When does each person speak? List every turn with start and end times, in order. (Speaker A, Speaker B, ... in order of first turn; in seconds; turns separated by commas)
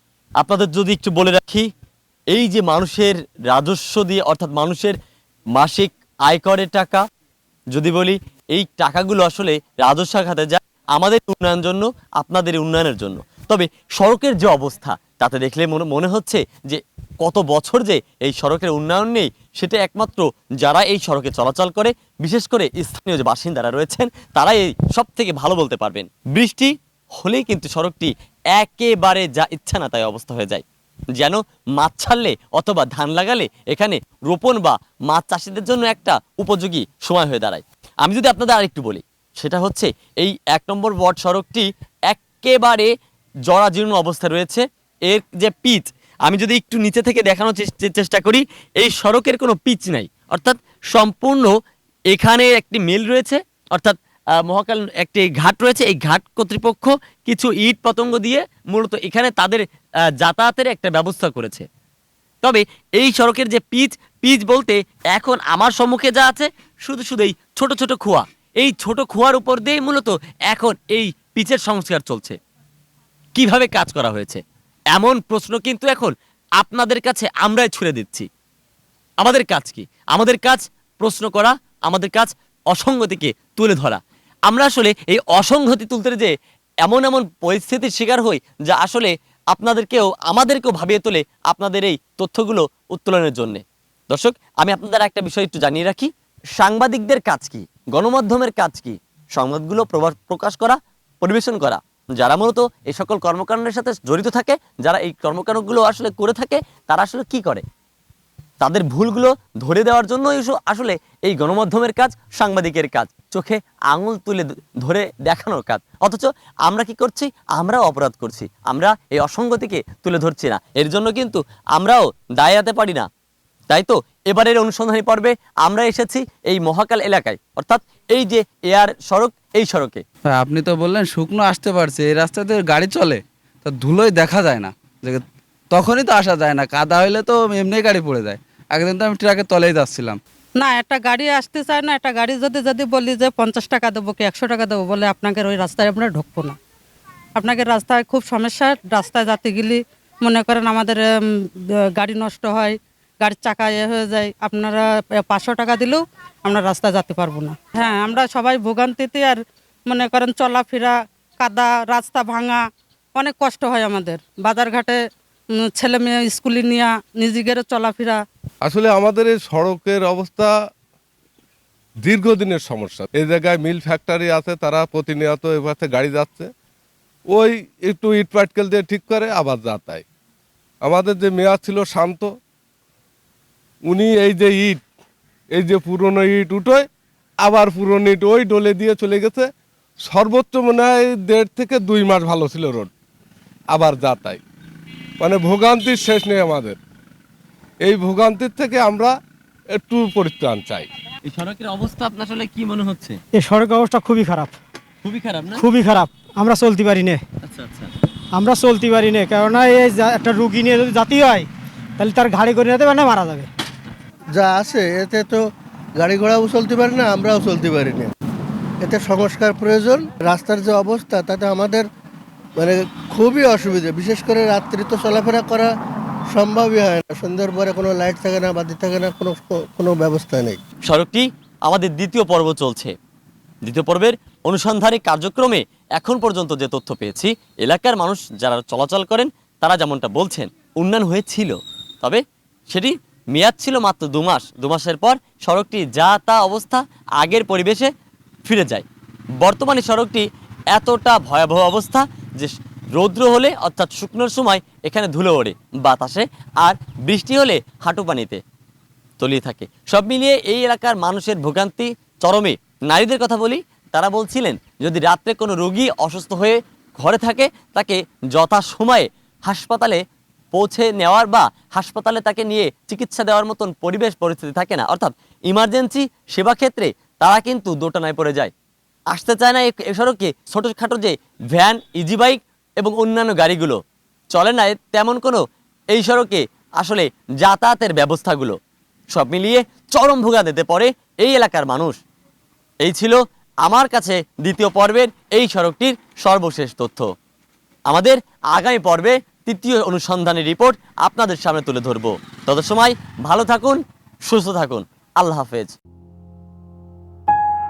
Speaker A: 0.4-1.7, Speaker A: 2.3-5.0, Speaker A: 5.5-7.0, Speaker A: 7.7-30.6, Speaker A: 31.1-42.9, Speaker A: 43.5-51.5, Speaker A: 52.1-61.6, Speaker A: 62.4-72.4, Speaker A: 73.3-74.4, Speaker A: 74.9-78.3, Speaker A: 79.2-86.3, Speaker A: 86.8-107.6, Speaker A: 108.6-123.1, Speaker A: 123.7-130.0, Speaker B: 130.3-140.2, Speaker C: 140.6-146.6, Speaker C: 147.3-162.6, Speaker C: 163.1-165.0, Speaker C: 165.6-168.2, Speaker D: 168.6-170.5, Speaker D: 172.0-176.5, Speaker D: 177.3-180.0, Speaker D: 180.8-182.3, Speaker D: 183.9-184.8, Speaker D: 185.5-186.9, Speaker D: 187.4-189.5, Speaker D: 190.0-192.9, Speaker D: 193.7-194.4, Speaker D: 195.2-196.8, Speaker D: 197.8-199.2, Speaker D: 199.7-200.9, Speaker A: 201.2-203.2, Speaker E: 203.3-204.5, Speaker A: 205.0-205.7, Speaker E: 205.6-207.2, Speaker A: 207.4-207.9, Speaker E: 208.3-213.5, Speaker F: 214.3-218.1, Speaker F: 218.8-221.9, Speaker F: 222.6-225.7, Speaker F: 226.3-230.6, Speaker A: 230.9-232.9, Speaker A: 233.6-247.9, Speaker A: 248.4-248.8, Speaker A: 249.4-258.4, Speaker A: 259.2-270.0, Speaker A: 270.5-278.5, Speaker A: 279.1-283.8, Speaker A: 284.3-288.6, Speaker A: 289.1-292.0, Speaker A: 292.8-297.1, Speaker A: 297.9-305.8